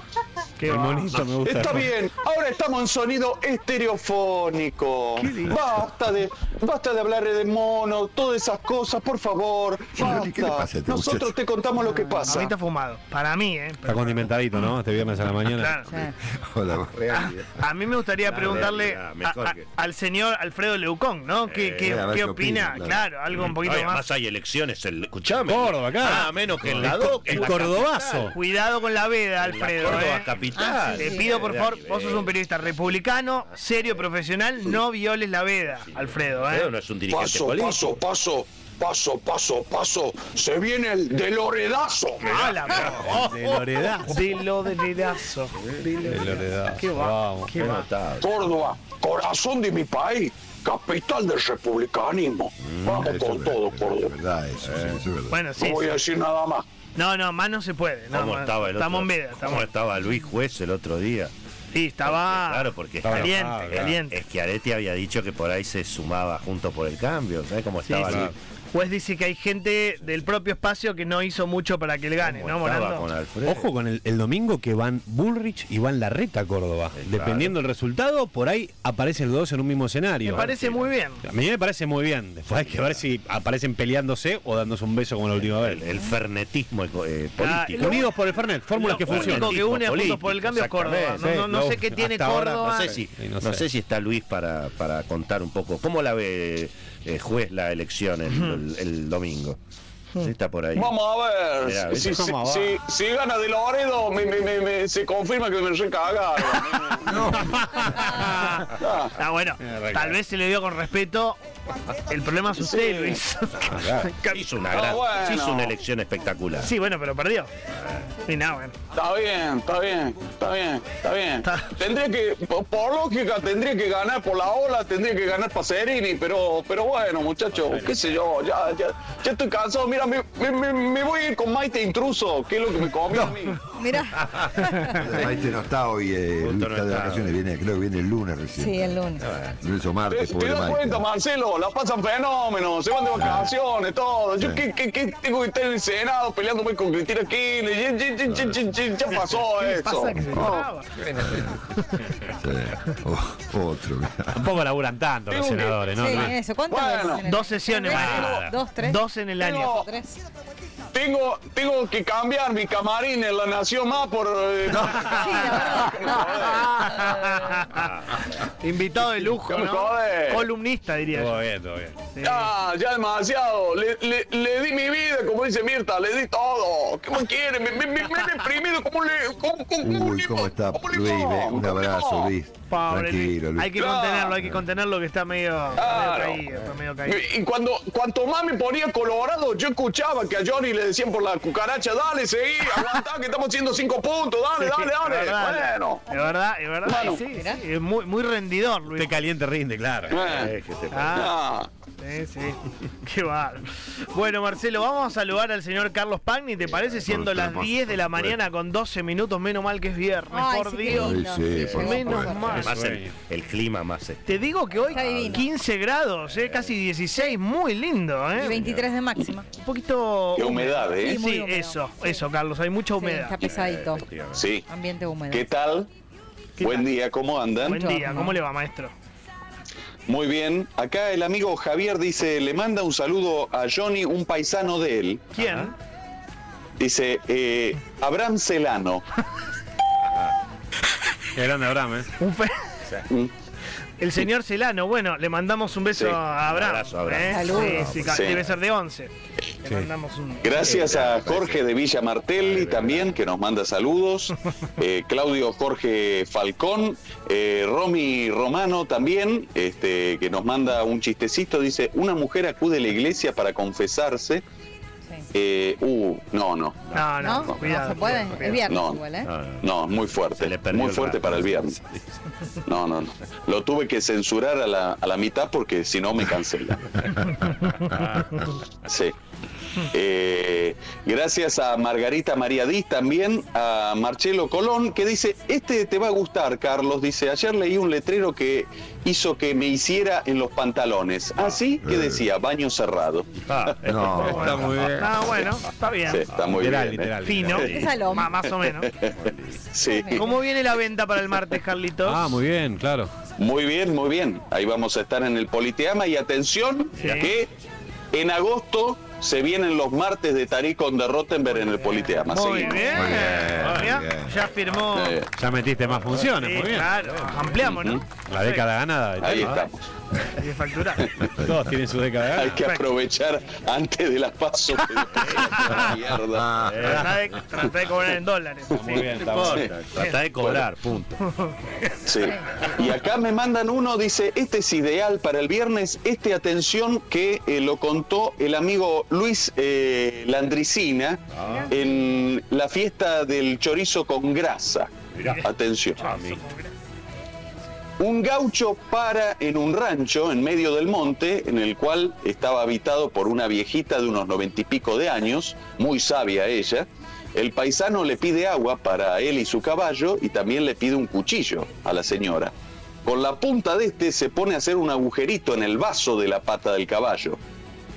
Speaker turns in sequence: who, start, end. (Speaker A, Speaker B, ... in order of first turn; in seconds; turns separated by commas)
Speaker A: 0.6-1.2, Speaker B: 0.6-1.9, Speaker C: 1.4-12.5, Speaker A: 5.2-5.6, Speaker D: 9.9-11.4, Speaker E: 11.8-12.4, Speaker A: 12.2-14.3, Speaker B: 13.8-15.9, Speaker D: 14.9-15.3, Speaker A: 15.5-15.9, Speaker E: 15.9-16.1, Speaker D: 15.9-17.2, Speaker F: 16.9-17.6, Speaker A: 17.1-24.1, Speaker F: 18.2-19.7, Speaker F: 21.5-22.2, Speaker D: 21.8-23.0, Speaker F: 22.8-28.4, Speaker B: 25.4-28.4, Speaker A: 26.0-26.3, Speaker A: 26.8-27.7, Speaker A: 28.3-36.7, Speaker F: 29.4-32.4, Speaker E: 30.5-31.4, Speaker F: 35.9-38.0, Speaker C: 37.1-42.3, Speaker A: 42.2-47.9, Speaker F: 42.2-43.1, Speaker B: 43.0-44.3, Speaker F: 45.5-45.9, Speaker B: 46.0-47.5, Speaker F: 47.5-48.5, Speaker C: 48.2-54.1, Speaker F: 52.6-53.2, Speaker D: 53.0-55.5, Speaker F: 54.6-55.0, Speaker A: 55.3-56.0, Speaker C: 55.6-56.7, Speaker A: 57.0-59.7, Speaker F: 58.1-61.3, Speaker A: 61.7-64.2, Speaker F: 62.0-68.4, Speaker B: 63.0-63.9, Speaker A: 67.9-73.1, Speaker B: 68.1-68.3, Speaker F: 72.2-73.7, Speaker B: 73.5-80.6, Speaker F: 77.0-77.5, Speaker A: 80.2-81.2, Speaker F: 80.3-80.8, Speaker B: 81.2-85.9, Speaker F: 82.5-83.0, Speaker F: 85.3-88.2, Speaker A: 87.4-88.2, Speaker B: 87.8-89.6, Speaker A: 88.7-93.0, Speaker F: 88.7-91.5, Speaker B: 91.2-93.7, Speaker F: 92.6-99.6, Speaker A: 98.3-98.6, Speaker F: 100.2-101.0, Speaker C: 100.8-107.3, Speaker F: 101.6-102.3, Speaker B: 102.2-102.7, Speaker B: 107.0-108.6, Speaker A: 107.1-111.4, Speaker C: 108.7-109.2, Speaker B: 109.6-110.2, Speaker A: 112.1-114.4, Speaker C: 112.6-113.2, Speaker F: 113.7-116.7, Speaker B: 113.7-114.1, Speaker C: 114.7-115.7, Speaker A: 116.6-117.5, Speaker F: 117.8-118.1, Speaker A: 118.3-118.8, Speaker C: 118.9-133.7, Speaker A: 121.4-121.8, Speaker E: 133.7-135.2, Speaker F: 134.2-134.5, Speaker D: 134.9-141.0, Speaker F: 136.4-137.3, Speaker E: 138.6-139.2, Speaker F: 139.2-139.6, Speaker C: 140.1-151.3, Speaker D: 143.1-143.5, Speaker D: 144.4-144.7, Speaker A: 149.4-151.2, Speaker D: 151.2-151.6, Speaker D: 152.3-154.5, Speaker B: 154.3-156.4, Speaker C: 155.3-157.2, Speaker E: 155.9-159.0, Speaker A: 157.1-159.8, Speaker F: 157.9-158.6, Speaker C: 158.0-158.5, Speaker C: 159.4-159.9, Speaker E: 159.7-160.1, Speaker C: 160.9-167.2, Speaker A: 164.9-165.6, Speaker E: 165.0-166.4, Speaker A: 166.2-167.9, Speaker F: 167.7-168.3, Speaker A: 168.4-171.4, Speaker C: 169.2-170.5, Speaker B: 171.1-172.1, Speaker A: 172.1-172.5, Speaker C: 172.2-182.3, Speaker D: 179.8-183.8, Speaker A: 182.7-187.3, Speaker C: 183.8-184.4, Speaker C: 185.8-186.4, Speaker C: 187.1-196.0, Speaker A: 194.6-199.2, Speaker C: 196.9-197.2, Speaker E: 197.3-197.6, Speaker B: 198.9-200.3, Speaker F: 200.1-201.3, Speaker C: 200.1-200.5, Speaker A: 200.9-201.3, Speaker C: 201.2-201.7, Speaker A: 202.0-212.8, Speaker F: 206.6-207.0, Speaker D: 207.1-208.3, Speaker E: 210.3-212.6, Speaker D: 210.9-212.5, Speaker F: 211.5-215.5, Speaker B: 212.5-213.1, Speaker A: 214.3-218.6, Speaker E: 214.9-215.5, Speaker F: 216.3-216.7, Speaker E: 218.4-219.5, Speaker F: 218.4-218.9, Speaker A: 219.5-223.4, Speaker C: 220.3-221.2, Speaker E: 221.0-222.3, Speaker E: 223.0-224.1, Speaker F: 223.4-224.5, Speaker C: 224.3-224.7, Speaker E: 224.7-225.5, Speaker C: 225.3-225.9, Speaker A: 226.6-226.9, Speaker C: 226.6-227.8, Speaker E: 227.6-228.4, Speaker A: 227.6-228.9, Speaker C: 230.1-235.3, Speaker A: 235.3-235.8, Speaker C: 236.8-239.0, Speaker B: 241.4-242.1, Speaker A: 242.2-242.7, Speaker A: 244.0-250.7, Speaker F: 246.5-248.6, Speaker E: 247.3-248.0, Speaker C: 248.0-248.4, Speaker C: 250.4-264.4, Speaker F: 250.6-251.6, Speaker D: 250.9-251.2, Speaker F: 252.4-253.2, Speaker C: 265.3-266.9, Speaker F: 266.9-268.0, Speaker A: 266.9-268.8, Speaker E: 267.2-269.3, Speaker C: 267.5-267.8, Speaker C: 268.6-269.0, Speaker F: 269.2-272.0, Speaker C: 269.6-271.8, Speaker C: 272.6-277.4, Speaker F: 277.9-278.3, Speaker C: 278.8-279.1, Speaker C: 279.8-293.8, Speaker D: 291.8-292.3, Speaker F: 293.5-294.9, Speaker D: 293.8-294.9, Speaker A: 294.3-296.3, Speaker B: 294.4-295.1, Speaker C: 296.1-298.0, Speaker B: 296.5-297.9, Speaker A: 297.2-298.9, Speaker E: 297.6-298.4, Speaker C: 298.7-300.3, Speaker F: 299.2-299.6, Speaker E: 299.9-300.3, Speaker A: 300.1-302.3, Speaker B: 302.0-303.1, Speaker C: 303.4-307.5, Speaker F: 307.0-307.3, Speaker A: 307.0-307.3, Speaker C: 308.1-313.2, Speaker A: 312.2-315.2, Speaker D: 312.9-314.4, Speaker F: 313.5-313.8, Speaker C: 314.8-315.3, Speaker B: 315.4-317.0, Speaker A: 316.4-318.7, Speaker C: 317.6-318.0, Speaker B: 318.2-319.6, Speaker C: 319.2-319.8, Speaker F: 319.4-319.6, Speaker A: 320.3-321.2, Speaker D: 321.2-321.8, Speaker B: 321.2-322.6, Speaker C: 322.3-327.0, Speaker A: 322.5-322.9, Speaker F: 325.2-325.8, Speaker D: 326.3-327.2, Speaker F: 326.6-327.2, Speaker A: 326.8-330.2, Speaker B: 328.7-329.7, Speaker F: 329.1-331.2, Speaker C: 330.4-330.6, Speaker A: 331.2-331.9, Speaker C: 332.0-346.2, Speaker F: 341.3-341.7, Speaker E: 341.5-341.7, Speaker F: 345.1-345.5, Speaker F: 346.0-346.4, Speaker A: 346.1-346.7, Speaker C: 348.0-362.5, Speaker C: 363.1-367.4